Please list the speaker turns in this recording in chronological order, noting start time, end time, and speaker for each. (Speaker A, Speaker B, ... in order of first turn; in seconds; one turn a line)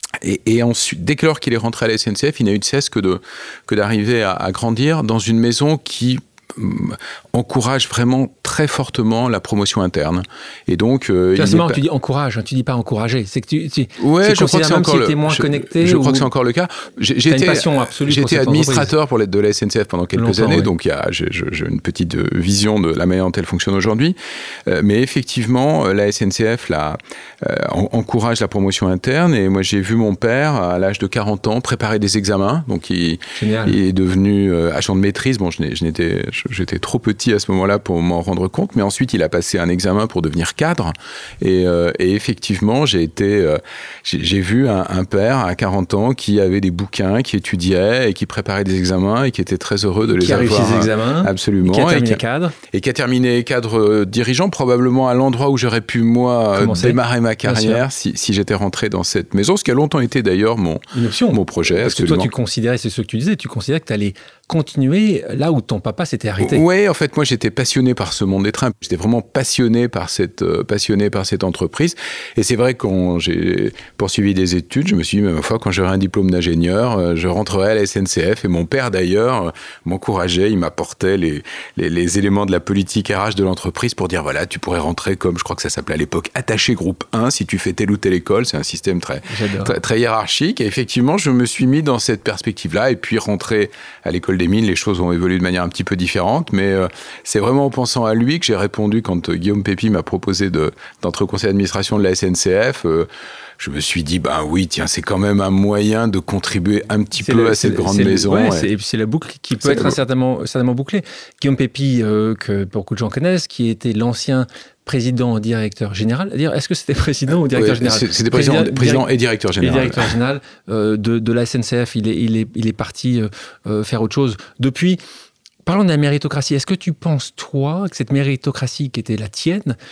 Speaker A: 0.2-11.8
Speaker B: 11.3-16.3
Speaker A: 14.0-62.3
Speaker B: 17.3-18.9
Speaker B: 20.1-20.7
Speaker B: 33.4-33.8
Speaker B: 50.0-52.6
Speaker B: 56.5-57.8
Speaker B: 60.9-66.6
Speaker A: 66.4-108.7
Speaker B: 89.3-89.8
Speaker B: 107.2-125.0
Speaker A: 109.6-110.0
Speaker A: 117.5-120.2
Speaker B: 125.7-129.8